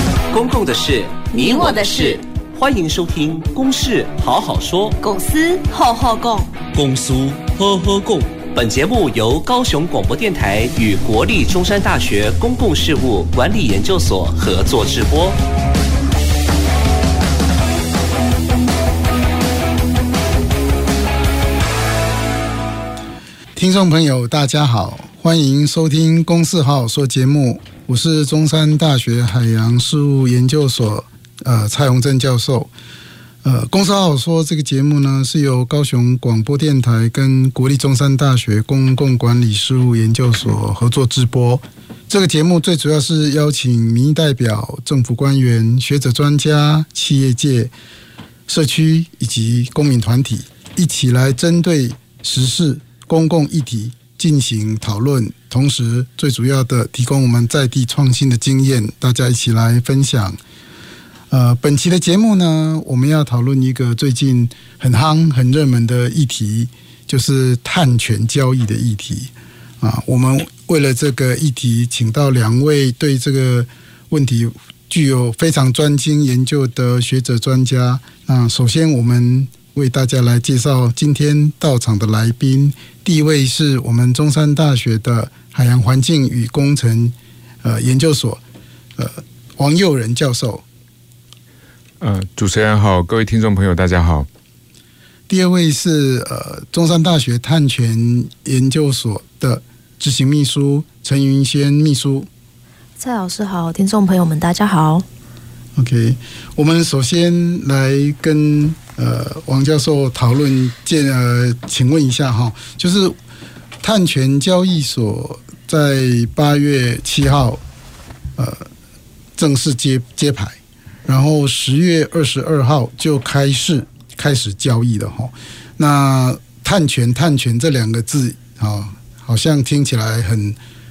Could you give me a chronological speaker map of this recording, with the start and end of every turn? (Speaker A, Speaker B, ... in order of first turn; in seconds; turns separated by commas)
Speaker A: 0.3-5.0, Speaker B: 1.3-2.2, Speaker B: 5.0-6.5, Speaker A: 6.7-15.4, Speaker C: 23.6-32.7, Speaker C: 33.4-47.7, Speaker C: 48.5-60.4, Speaker C: 61.3-88.4, Speaker C: 89.0-90.6, Speaker D: 92.0-94.3, Speaker C: 95.3-102.3, Speaker E: 103.0-105.1, Speaker C: 105.8-113.2, Speaker C: 113.8-117.6, Speaker C: 118.4-118.7, Speaker C: 119.4-130.6